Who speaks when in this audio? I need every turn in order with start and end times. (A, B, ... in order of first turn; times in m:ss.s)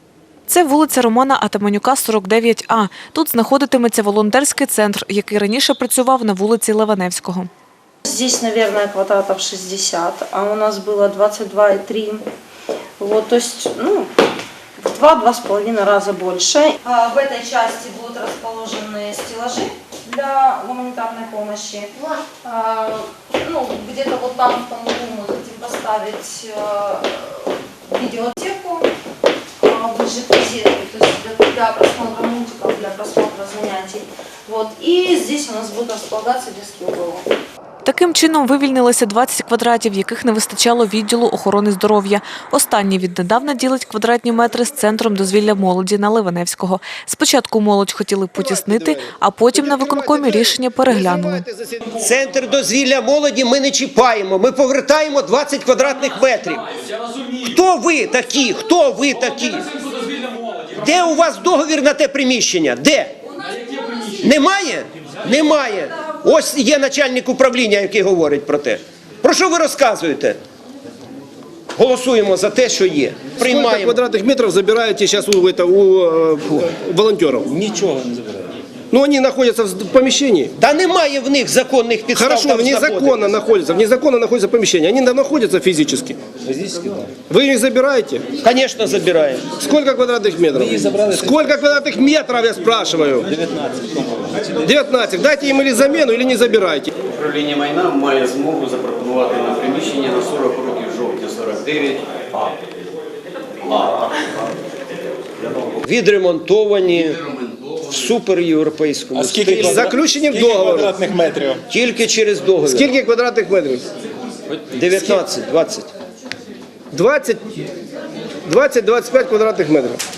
0:00.5-0:07.5 A
0:08.0-0:12.2 B
0:13.0-0:14.1 B
0:14.8-0:28.9 B
0:29.6-0:37.3 B
0:37.8-0:51.4 A
0:48.4-0:51.9 C
0:52.0-0:56.7 D
0:57.4-0:59.7 D
1:00.6-1:03.1 D
1:04.2-1:10.4 D
1:11.7-1:14.0 D
1:13.4-1:17.6 C
1:17.6-1:18.4 E
1:18.9-1:20.5 C
1:20.6-1:23.3 D
1:22.1-1:26.2 C
1:26.5-1:27.1 E
1:27.3-1:28.3 C
1:28.4-1:29.6 D
1:29.6-1:33.3 C
1:30.5-1:31.4 E
1:33.3-1:34.6 E
1:34.6-1:36.9 C
1:37.1-1:42.1 F
1:45.8-1:47.2 D
1:47.9-1:49.9 D
1:49.1-1:51.6 E
1:49.4-1:51.1 C
1:51.7-1:52.9 D
1:52.6-1:53.8 C
1:54.7-1:55.9 D
1:56.9-1:57.7 C
1:58.4-2:00.0 C